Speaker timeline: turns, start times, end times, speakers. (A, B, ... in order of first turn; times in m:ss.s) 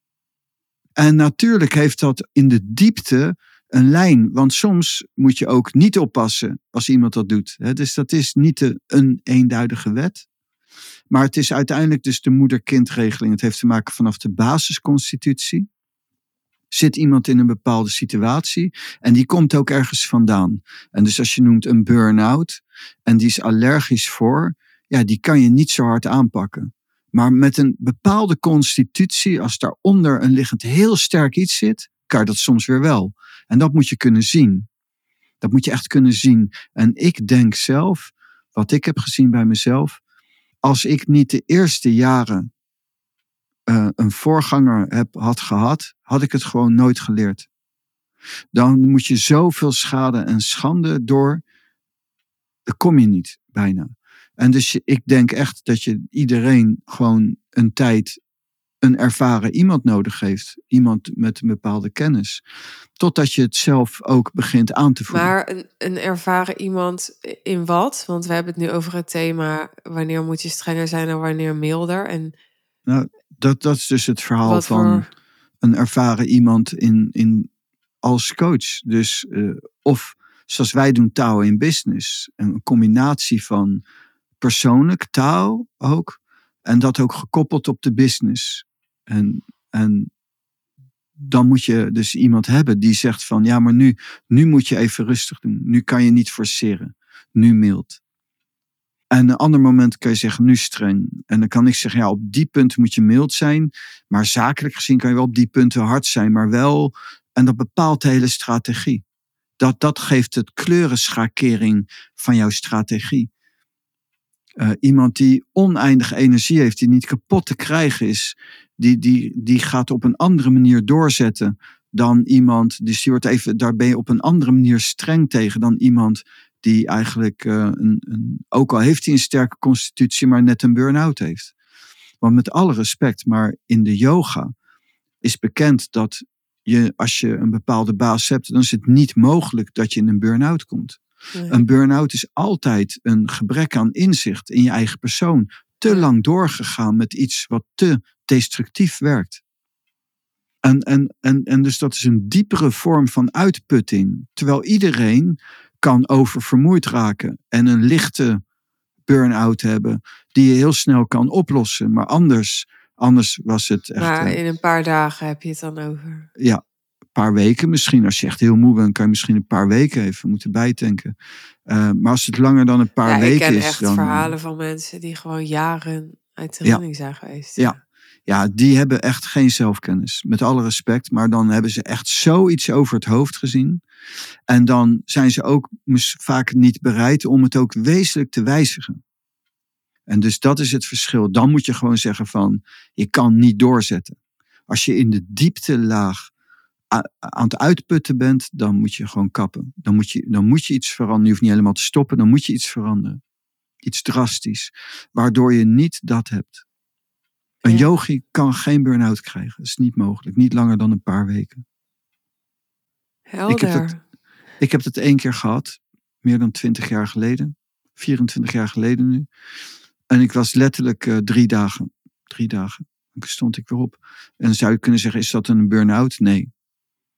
0:01.0-0:10.2 A
0:11.1-0:15.7 A
0:16.7-0:34.7 A
0:35.4-0:40.0 A
0:40.6-0:42.5 A
0:43.7-0:47.5 A
0:48.5-0:51.4 A
0:52.7-0:58.2 A
0:58.8-1:02.4 A
1:03.0-1:05.3 A
1:05.1-1:12.3 B
1:12.9-1:15.1 A
1:14.4-1:15.1 B
1:15.6-1:17.5 A
1:18.0-1:23.8 A
1:24.4-1:30.1 A
1:31.2-1:38.0 A
1:39.1-1:49.0 A
1:49.6-1:53.3 A
1:54.6-2:11.5 A
2:12.2-2:14.5 A
2:15.2-2:29.4 A
2:21.4-2:21.6 B
2:30.6-2:38.4 A
2:39.1-2:44.4 A
2:44.0-2:46.3 B
2:46.4-2:46.6 A
2:47.2-2:51.1 A
2:51.7-2:54.3 A
2:53.0-2:57.8 B
2:58.3-3:03.8 A
3:04.5-3:09.0 A
3:10.1-3:14.2 A
3:14.7-3:16.3 A
3:16.9-3:23.2 A
3:23.8-3:26.6 A
3:27.6-3:31.6 A
3:33.3-3:34.0 B
3:33.5-3:33.9 A
3:34.6-3:39.3 A
3:40.1-3:46.5 A